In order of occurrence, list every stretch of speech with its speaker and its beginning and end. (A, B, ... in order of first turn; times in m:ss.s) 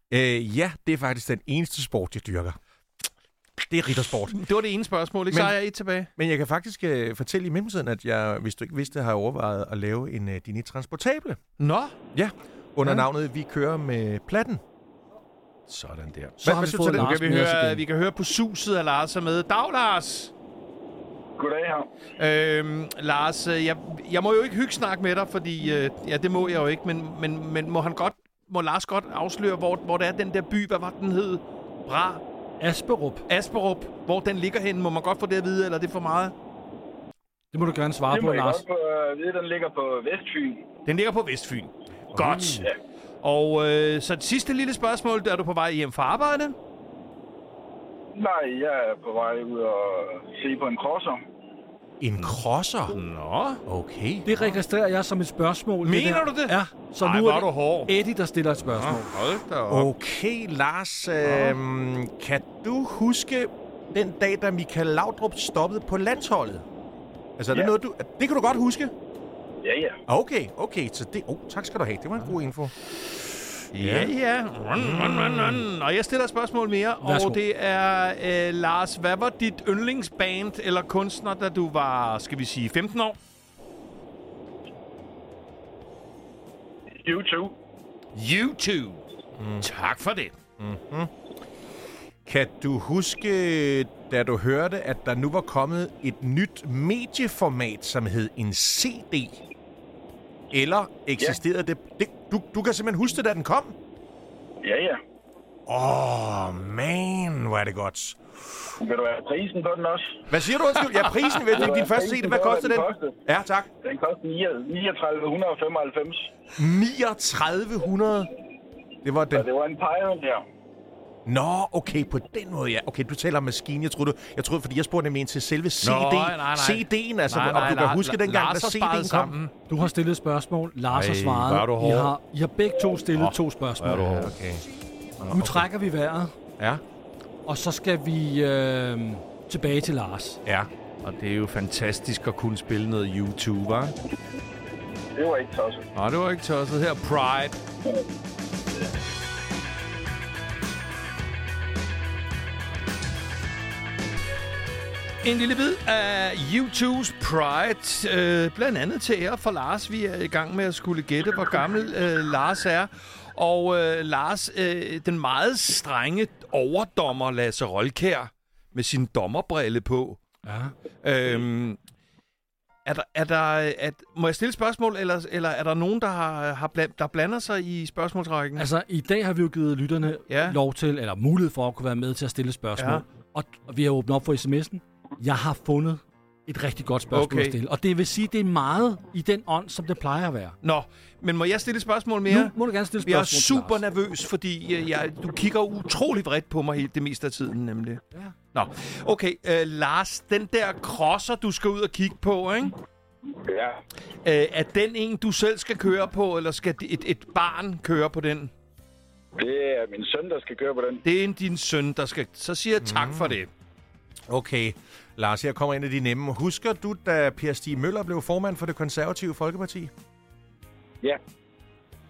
0:00.1-0:02.6 A
0:03.6-0:04.4 A
0:04.3-0:06.1 B
0:05.3-0:05.6 A
0:06.2-0:11.4 A
0:11.6-0:12.0 B
0:12.1-0:14.6 A
0:15.7-0:20.3 B
0:16.4-0:17.8 C
0:16.4-0:17.2 A
0:21.4-0:21.9 D
0:22.2-0:32.2 B
0:32.6-0:33.2 C
0:33.3-0:36.3 B
0:37.5-0:38.6 C
0:38.1-0:40.6 D
0:40.8-0:42.7 B
0:42.1-0:42.7 A
0:43.2-0:46.5 B
0:48.1-0:51.2 D
0:52.0-0:53.0 A
0:52.9-0:53.6 B
0:53.6-0:54.3 A
0:54.2-0:59.1 C
0:55.8-0:57.9 B
0:58.8-0:59.9 B
0:59.7-1:06.6 A
1:07.4-1:08.9 A
1:09.6-1:10.0 D
1:10.1-1:12.7 A
1:13.7-1:23.2 B
1:13.8-1:14.1 A
1:14.8-1:15.6 A
1:17.0-1:17.4 C
1:27.0-1:27.5 D
1:28.1-1:29.0 B
1:29.4-1:29.7 A
1:29.6-1:30.4 B
1:30.6-1:31.1 A
1:32.2-1:39.4 A
1:40.5-1:43.7 A
1:44.6-1:45.0 D
1:45.7-1:48.2 A
1:48.8-1:50.2 D
1:50.3-1:53.7 A
1:51.5-1:53.2 D
1:53.8-1:56.3 D
1:56.6-1:58.3 A
1:59.0-1:59.5 A
1:59.3-2:00.4 D
2:01.2-2:09.4 A
2:05.8-2:09.5 B
2:09.7-2:14.3 C
2:10.9-2:12.1 B
2:13.1-2:14.4 B
2:14.1-2:14.6 A
2:15.2-2:15.6 A
2:15.3-2:16.3 C
2:17.4-2:20.4 C
2:21.0-2:23.9 B
2:25.1-2:25.8 D
2:25.9-2:27.6 B
2:35.2-2:50.2 B
2:50.4-2:50.7 C
2:51.0-2:51.8 B
2:52.8-2:58.6 B
2:58.6-3:10.6 C
3:00.3-3:00.6 B
3:02.8-3:03.0 B
3:07.1-3:07.6 B
3:10.6-3:18.0 B
3:12.3-3:13.8 C
3:18.5-3:22.8 B
3:23.4-3:23.8 D
3:24.2-3:28.5 B
3:29.4-3:31.0 D
3:31.0-3:33.5 B
3:32.8-3:33.4 A
3:34.3-3:39.9 A